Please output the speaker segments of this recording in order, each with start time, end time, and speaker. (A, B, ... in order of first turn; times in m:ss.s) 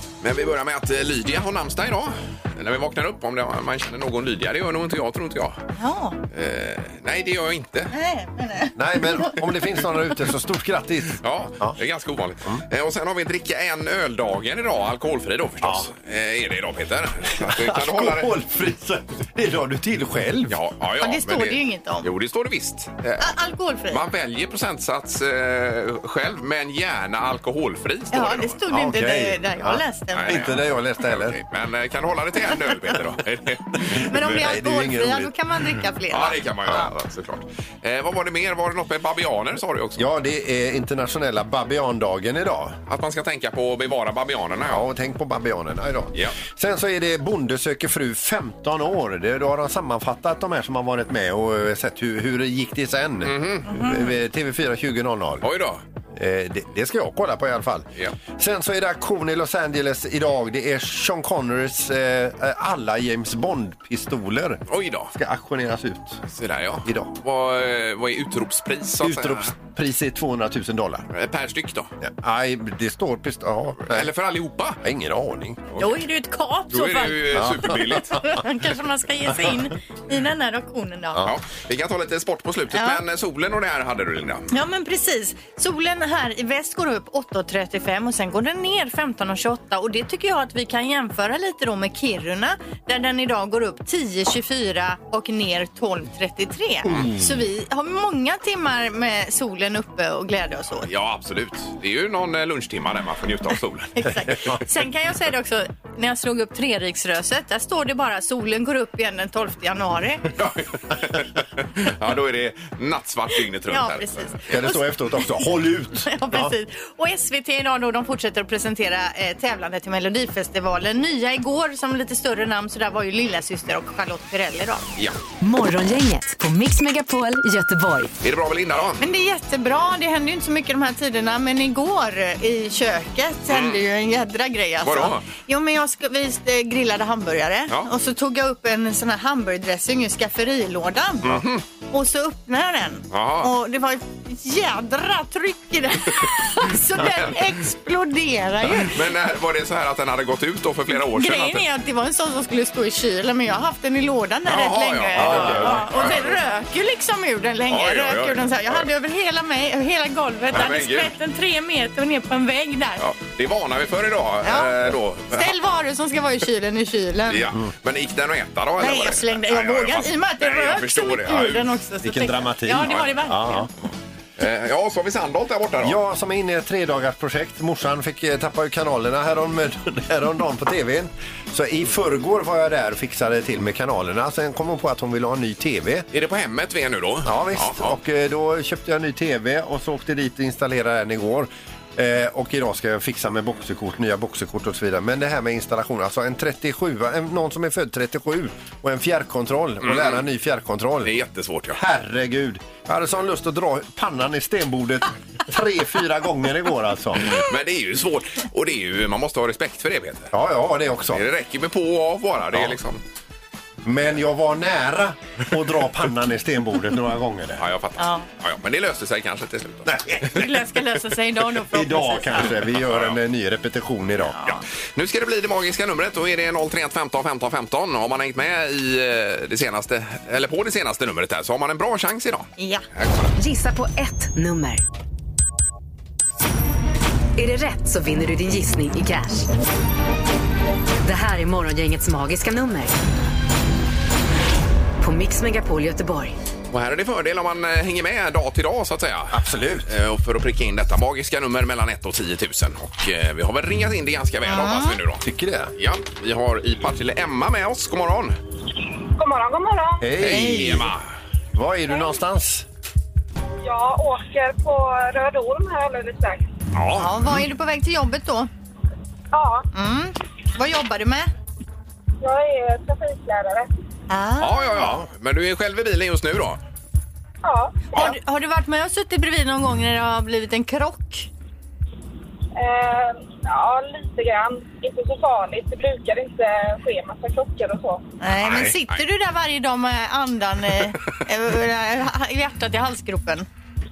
0:00.2-0:05.6 A
0:05.8-0:06.2 B
0:06.3-0:07.9 A
0:07.9-0:09.4 B
0:08.8-0:11.8 C
0:11.2-0:18.3 A
0:15.6-0:15.9 C
0:17.3-0:20.6 C
0:20.5-0:23.3 A
0:21.0-0:22.1 B
0:23.2-0:24.0 B
0:23.9-0:28.6 A
0:28.1-0:30.5 B
0:28.7-0:31.4 C
0:30.1-0:34.4 A
0:33.8-0:35.3 C
0:34.1-0:36.9 B
0:36.1-0:40.1 A
0:40.0-0:42.8 C
0:42.9-0:44.8 A
0:44.7-0:55.4 C
0:53.2-0:53.9 A
0:53.7-0:54.0 B
0:55.4-0:55.8 A
0:56.1-1:04.6 C
1:04.7-1:05.1 A
1:05.1-1:06.2 C
1:06.3-1:09.5 A
1:06.8-1:07.1 C
1:09.0-1:11.0 C
1:11.1-1:11.9 A
1:12.0-1:14.1 C
1:13.9-1:14.8 A
1:14.8-1:15.6 C
1:15.7-1:16.0 A
1:15.8-1:21.3 B
1:16.7-1:18.4 A
1:17.3-1:17.9 C
1:21.2-1:24.5 A
1:22.7-1:23.0 B
1:24.5-1:40.9 B
1:36.8-1:37.4 C
1:40.9-1:43.9 A
1:44.0-1:50.2 B
1:44.3-1:44.6 C
1:50.3-1:54.6 A
1:53.7-1:55.2 B
1:54.5-1:56.5 C
1:56.1-2:04.8 B
2:05.4-2:08.1 D
2:08.2-2:09.0 A
2:09.0-2:29.1 B
2:13.5-2:13.8 A
2:14.8-2:15.2 A
2:21.2-2:21.6 A
2:23.1-2:23.5 A
2:27.0-2:27.5 A
2:28.7-2:31.6 A
2:31.1-2:43.0 B
2:34.5-2:36.4 A
2:35.2-2:35.8 C
2:37.7-2:38.9 A
2:40.5-2:41.1 A
2:43.0-2:45.5 A
2:44.4-2:47.5 B
2:47.3-2:51.8 A
2:48.8-2:53.7 B
2:52.0-2:53.7 C
2:54.4-2:56.0 A
2:55.8-3:06.1 C
3:06.1-3:08.0 A
3:07.2-3:21.1 C
3:19.8-3:20.2 A
3:21.0-3:21.8 A
3:21.7-3:27.4 C
3:27.2-3:30.3 A
3:30.3-3:31.2 C
3:31.1-3:33.0 A
3:33.8-3:37.6 C
3:37.6-3:39.9 A
3:38.0-3:38.2 B
3:39.8-3:40.5 C
3:40.2-3:42.6 B
3:41.7-3:44.4 C
3:42.6-3:43.2 A
3:44.3-3:44.6 B
3:44.4-3:53.3 A
3:52.6-3:52.8 B
3:53.4-3:54.8 D
3:57.4-3:59.5 D
4:01.0-4:02.9 D
4:05.0-4:06.3 D
4:06.7-4:15.2 A
4:09.3-4:09.9 C
4:14.4-4:15.0 B
4:15.2-4:15.7 C
4:15.8-4:18.4 A
4:19.2-4:20.1 E
4:20.0-4:20.9 C
4:20.2-4:21.0 A
4:21.5-4:22.6 C
4:23.6-4:26.5 E
4:26.7-4:27.4 A
4:26.9-4:28.5 B
4:29.3-4:29.7 E
4:29.7-4:31.3 B
4:32.2-4:33.7 E
4:34.1-4:34.9 B
4:34.4-4:36.6 A
4:34.8-4:35.0 C
4:37.4-4:38.2 E
4:37.9-4:41.3 B
4:42.5-4:48.1 E
4:48.2-4:53.5 B
4:48.3-4:49.0 A